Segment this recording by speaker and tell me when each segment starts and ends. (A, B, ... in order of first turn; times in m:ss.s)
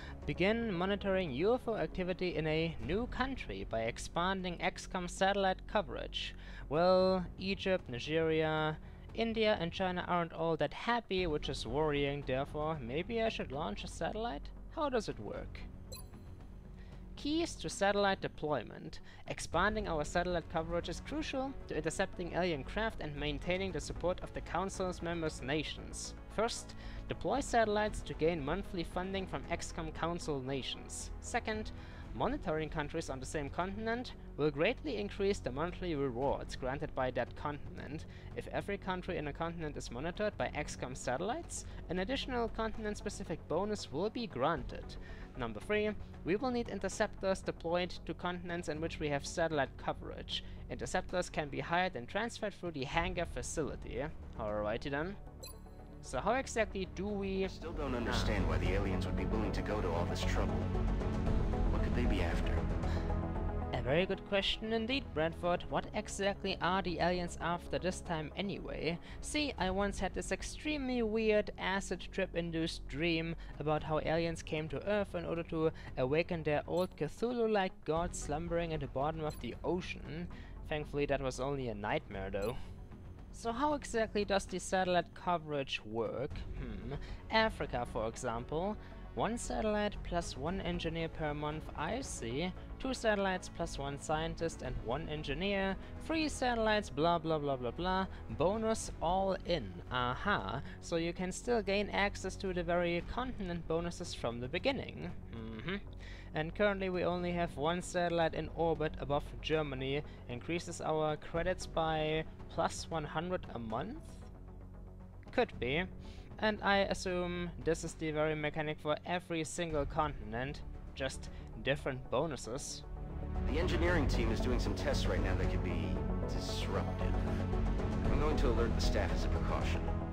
0:00.2-0:15.7 A
0:17.2-0:55.2 A
0:56.0-0:57.5 A
0:57.4-1:00.7 B
0:58.0-0:58.4 A
1:01.7-1:02.6 B
1:03.7-1:22.6 A
1:23.3-1:54.2 A
1:55.3-2:02.8 A
2:03.4-2:07.4 B
2:08.0-2:09.9 B